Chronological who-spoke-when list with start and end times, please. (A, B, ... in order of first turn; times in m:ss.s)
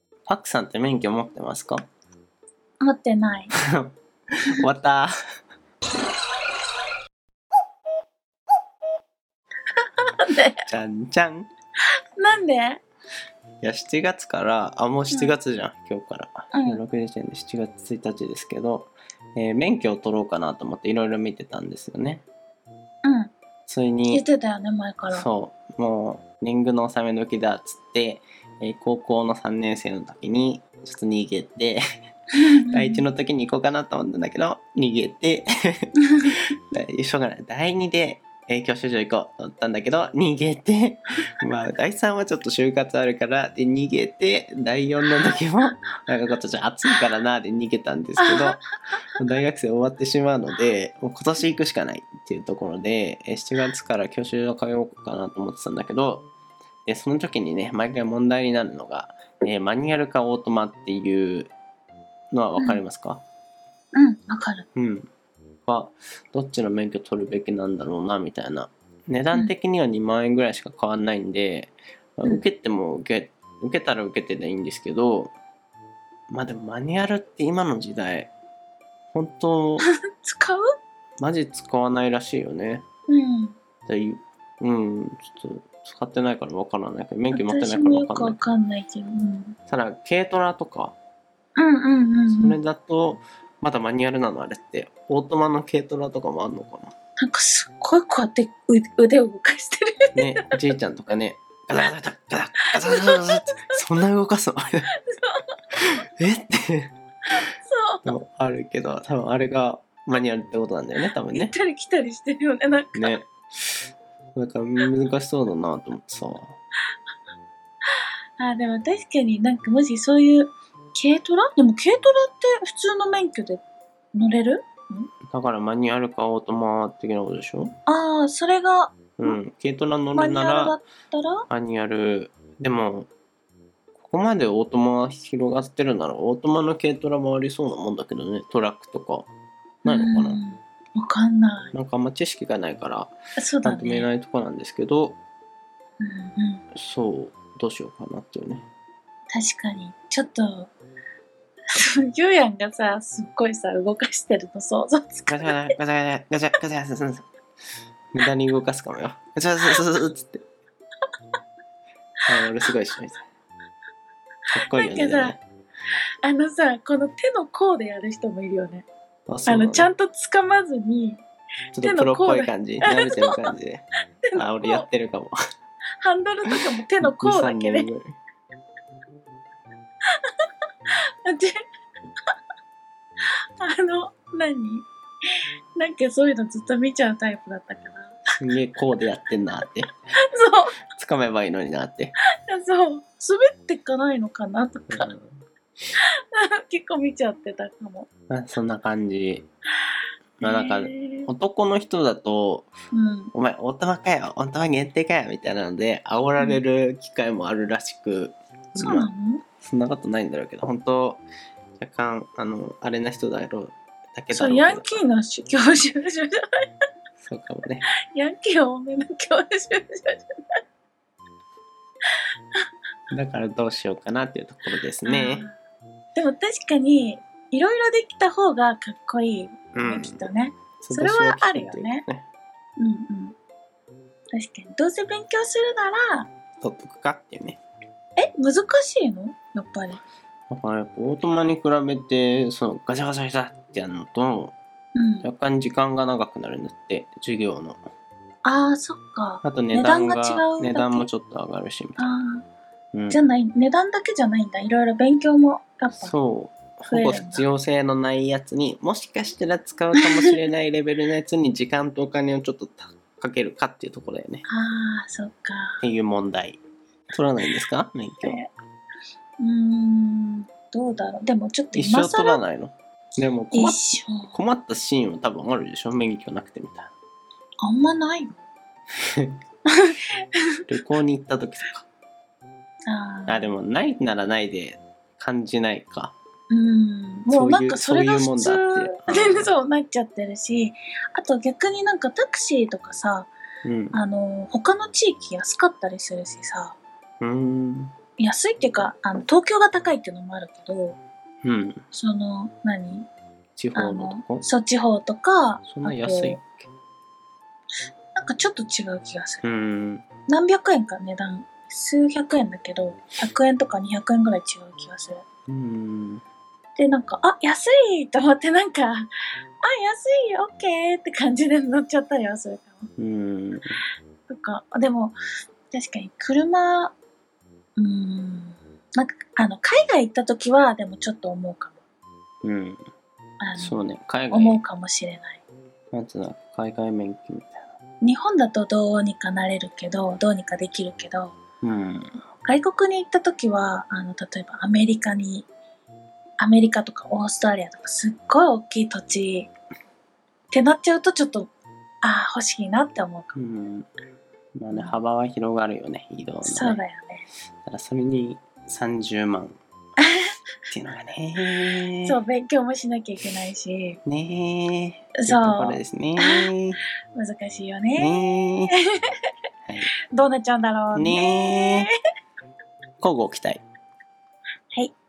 0:00.3-0:01.8 A
0:02.8-0:03.5 B
0:03.5-0:05.1 A
0:09.8-0:10.6 B
0:10.6-0:11.5 A
0:12.2-0:12.8 B
0:13.6-0:22.2 A
0:15.1-0:15.4 B
0:16.5-0:16.8 B
0:23.0-0:23.3 B
0:23.7-0:24.2 A
0:24.1-0:25.3 B
0:25.1-0:31.8 A
0:32.4-0:33.0 B
0:32.7-0:56.3 A
0:36.0-0:36.3 B
0:48.2-0:48.6 B
0:56.8-1:01.5 A
1:02.3-1:03.2 A
1:02.6-1:02.8 B
1:03.9-1:04.7 B
1:04.8-1:05.1 A
1:05.7-1:15.3 A
1:16.3-1:18.3 A
1:19.1-1:19.9 A
1:19.8-1:20.7 B
1:21.2-1:22.9 A
1:23.1-1:23.6 B
1:23.9-1:28.4 A
1:27.3-1:29.6 B
1:29.7-1:31.0 A
1:31.6-1:32.6 B
1:32.3-1:36.9 A
1:37.2-1:40.5 B
1:40.2-1:44.9 A
1:42.6-1:43.8 B
1:45.0-1:45.6 B
1:45.8-1:47.0 A
1:47.4-1:48.2 B
1:48.0-1:51.5 A
1:51.3-1:53.2 B
1:53.0-1:53.3 A
1:54.4-1:56.6 A
1:58.4-2:05.1 B
2:05.3-2:07.8 A
2:07.9-2:09.4 B
2:09.2-2:10.8 A
2:10.2-2:11.5 B
2:11.5-2:13.1 A
2:14.0-2:19.3 A
2:19.8-2:21.7 B
2:19.9-2:20.4 A
2:21.7-2:25.2 A
2:23.4-2:24.1 B
2:26.0-2:26.6 B
2:26.7-2:28.7 A
2:29.3-2:30.7 B
2:31.8-2:35.7 B
2:35.3-2:37.3 A
2:38.1-2:40.4 A
2:42.3-2:43.2 A
2:44.5-2:45.4 A
2:44.7-2:45.4 B
2:46.2-2:48.9 B
2:49.3-2:49.9 A
2:49.5-2:51.2 B
2:51.7-2:55.4 A
2:51.8-2:53.6 B
2:54.2-2:54.9 B
2:56.0-2:57.9 B
2:56.5-2:58.2 A
3:00.1-3:01.6 B
3:03.6-3:08.2 B
3:08.4-3:09.9 A
3:10.2-3:10.8 B
3:10.9-3:12.2 A
3:12.4-3:15.1 B
3:14.9-3:15.4 A
3:16.0-3:18.1 B
3:18.3-3:19.5 A
3:19.9-3:21.3 B
3:20.4-3:22.7 A
3:22.9-3:23.3 B
3:23.3-3:31.2 A
3:28.8-3:29.4 B
3:31.8-3:35.0 A
3:34.3-3:36.7 B
3:37.2-3:37.9 A
3:38.1-3:40.6 B
3:43.1-3:45.5 A
3:45.1-3:45.6 B
3:46.2-3:52.0 B
3:49.7-3:52.3 A
3:52.8-3:53.4 B
3:54.3-3:56.3 B
3:56.6-3:57.6 A
3:58.2-4:00.0 B
4:00.5-4:04.6 A
4:05.0-4:05.3 B
4:05.2-4:07.8 A
4:08.4-4:11.1 B
4:09.4-4:12.0 A
4:12.0-4:12.4 B
4:12.9-4:13.2 A
4:13.1-4:16.2 B
4:15.9-4:24.5 A
4:16.9-4:17.4 B
4:20.0-4:20.4 B
4:24.5-4:25.8 B
4:25.8-4:26.6 A
4:27.1-4:28.4 A
4:28.2-4:28.5 B
4:29.4-4:32.4 B
4:31.7-4:36.9 A
4:33.5-4:34.4 B
4:37.6-4:38.4 B
4:39.7-4:40.2 B
4:40.7-4:41.8 A
4:42.9-4:43.5 B
4:43.3-4:46.2 A
4:46.5-4:53.3 B
4:47.3-4:49.5 A
4:53.6-4:54.0 A
4:53.9-4:56.8 B
4:57.2-4:58.0 A
4:58.2-5:01.0 B
5:01.4-5:01.8 A
5:01.9-5:03.1 B
5:03.6-5:04.5 A
5:03.8-5:06.4 B
5:05.6-5:06.7 A
5:08.2-5:09.5 B
5:09.4-5:10.1 A
5:10.3-5:15.2 B
5:15.5-5:16.2 A
5:16.8-5:22.9 B
5:23.0-5:23.8 A
5:24.3-5:25.2 B
5:25.7-5:26.9 B
5:27.8-5:31.8 B
5:32.4-5:32.8 A
5:33.4-5:35.4 B
5:33.6-5:34.6 A
5:35.9-5:37.7 A
5:38.0-5:41.4 B
5:41.6-5:42.2 A
5:42.4-5:45.5 B
5:46.4-5:49.5 B
5:50.5-5:51.5 B
5:52.0-5:53.4 B
5:53.3-5:53.9 A
5:54.6-5:56.8 A
5:56.4-5:57.3 B
5:57.6-5:59.6 A
6:00.0-6:00.3 B
6:00.7-6:02.2 A
6:02.0-6:04.0 B
6:04.1-6:06.8 A
6:05.2-6:06.5 B
6:07.2-6:09.3 B
6:08.0-6:08.7 A
6:09.7-6:09.9 A
6:10.1-6:12.0 B
6:10.9-6:11.9 A
6:13.0-6:13.6 A